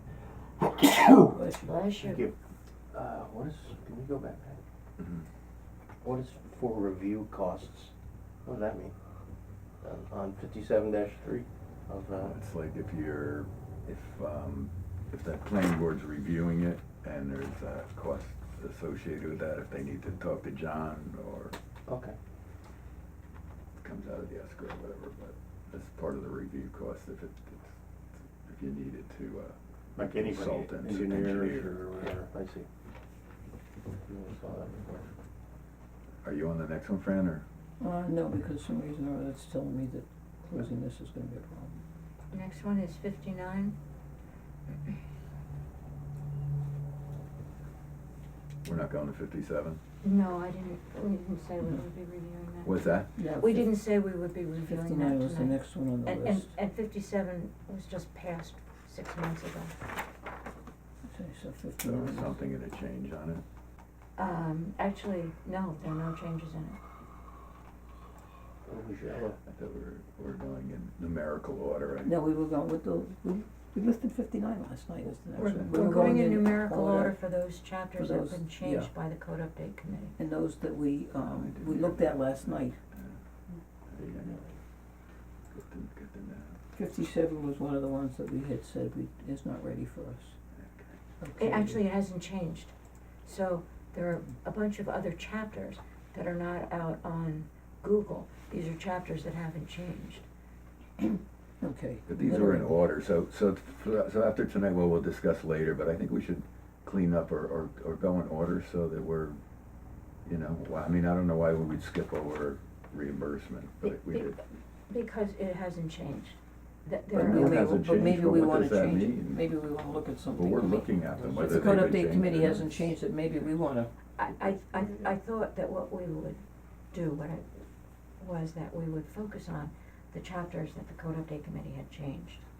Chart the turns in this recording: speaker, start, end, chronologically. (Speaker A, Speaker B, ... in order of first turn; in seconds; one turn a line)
Speaker A: 1.0-1.3
Speaker B: 1.2-1.7
Speaker C: 1.6-2.2
Speaker A: 2.0-2.3
Speaker A: 2.9-4.6
Speaker D: 5.0-5.2
Speaker A: 6.0-7.9
Speaker A: 8.4-8.9
Speaker A: 9.8-12.4
Speaker D: 12.2-21.5
Speaker A: 21.9-22.2
Speaker D: 23.8-31.8
Speaker A: 30.0-32.7
Speaker A: 34.0-35.1
Speaker D: 36.2-37.5
Speaker B: 37.8-41.8
Speaker C: 42.3-43.8
Speaker D: 48.6-49.8
Speaker C: 50.0-59.7
Speaker D: 52.6-53.1
Speaker B: 53.1-53.8
Speaker B: 54.6-56.5
Speaker B: 61.0-62.4
Speaker D: 61.8-63.4
Speaker C: 64.2-66.8
Speaker A: 68.6-69.4
Speaker D: 69.4-72.2
Speaker B: 72.0-77.2
Speaker C: 75.3-80.2
Speaker D: 75.5-75.8
Speaker B: 77.9-78.9
Speaker B: 80.2-82.8
Speaker D: 81.2-83.2
Speaker D: 83.9-84.4
Speaker A: 84.0-84.5
Speaker D: 85.5-86.6
Speaker B: 86.7-90.4
Speaker D: 90.6-90.9
Speaker B: 91.2-91.8
Speaker C: 91.4-92.7
Speaker C: 93.2-100.2
Speaker B: 101.6-102.8
Speaker D: 102.1-109.4
Speaker D: 110.2-114.4
Speaker C: 113.8-117.7
Speaker D: 117.1-119.5
Speaker B: 117.1-123.9
Speaker D: 120.3-122.8
Speaker A: 121.2-122.0
Speaker C: 124.2-127.6
Speaker A: 124.4-125.1
Speaker C: 128.2-132.4